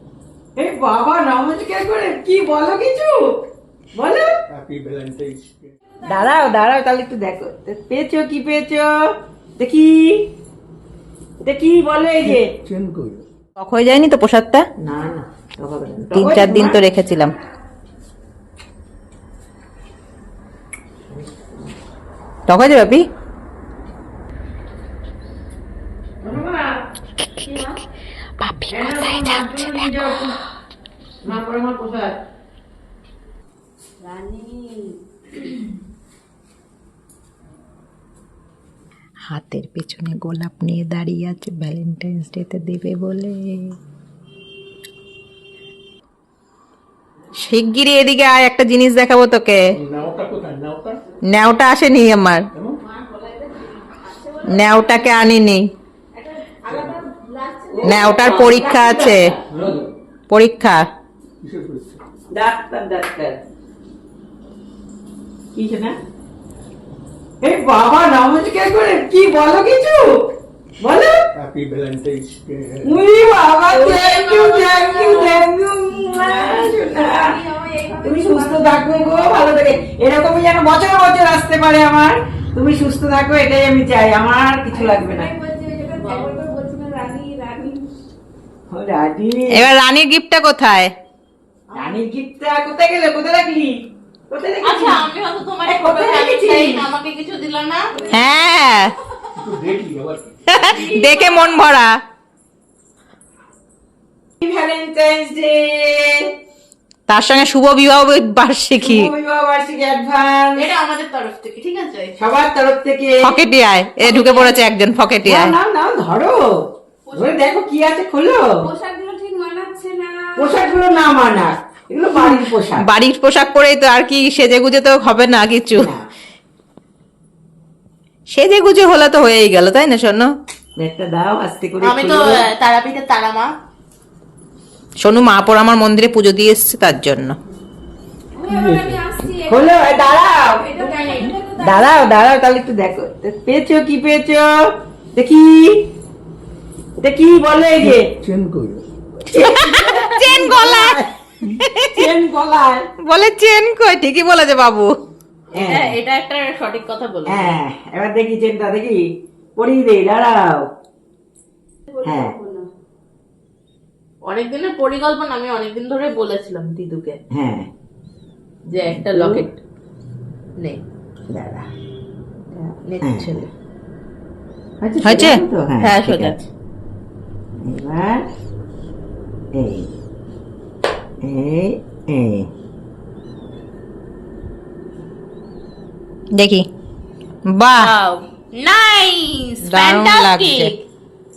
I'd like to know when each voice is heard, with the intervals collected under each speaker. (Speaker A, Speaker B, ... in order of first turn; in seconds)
Speaker A: 0.6-3.3, 4.0-4.3, 6.0-8.9, 9.6-10.2, 11.4-12.5, 14.8-16.8, 26.2-26.6, 28.7-30.3, 31.2-32.1, 57.7-59.8, 62.3-63.4, 65.5-65.9, 67.4-70.1, 70.8-71.1, 72.8-77.4, 78.0-85.3, 88.7-89.7, 91.7-93.7, 94.3-95.0, 95.7-96.8, 104.4-106.3, 108.8-110.7, 112.2-113.3, 115.2-116.4, 117.1-118.5, 120.4-122.9, 125.7-126.0, 130.8-132.4, 139.5-140.8, 141.6-144.5, 145.1-145.8, 147.0-148.1, 149.3-151.1, 151.9-152.8, 155.5-155.9, 157.3-159.0, 159.6-160.4, 162.0-162.3, 167.3-167.7, 168.8-169.5, 171.3-171.7, 172.6-173.4, 174.8-176.4, 177.6-178.2, 179.5-179.9, 181.2-182.5
Speaker B: 4.5-5.7, 12.2-13.2, 49.7-51.0, 52.5-52.8, 56.7-57.0, 59.5-59.9, 61.4-62.0, 71.3-73.0, 99.3-100.7, 138.5-139.1, 147.8-148.8
Speaker C: 5.9-6.5, 34.0-35.4, 52.9-55.2, 56.1-58.4, 74.1-75.2, 76.0-79.5, 84.7-87.9, 118.6-120.8, 138.3-142.2, 161.9-162.7
Speaker D: 13.6-14.7, 16.1-17.3, 22.5-23.0, 27.2-27.7, 28.4-30.2, 39.3-43.8, 47.4-49.6, 51.3-52.5, 54.5-55.6, 57.8-59.2, 60.3-60.8, 89.5-90.9, 98.1-98.9, 100.5-101.9, 107.1-109.1, 113.2-115.5, 122.1-125.9, 128.3-130.3, 135.0-137.4, 149.3-151.0, 151.6-152.1, 153.0-154.9, 175.0-175.4, 186.3-186.7, 187.5-187.9, 189.6-190.7
Speaker E: 73.7-75.4, 86.0-86.3, 94.6-98.0, 100.7-101.3, 110.5-112.1, 114.0-114.5, 117.1-117.5, 131.8-133.5, 155.6-157.6, 164.2-167.2, 168.7-169.6, 170.6-170.8, 172.8-173.5, 175.8-176.4, 187.8-190.8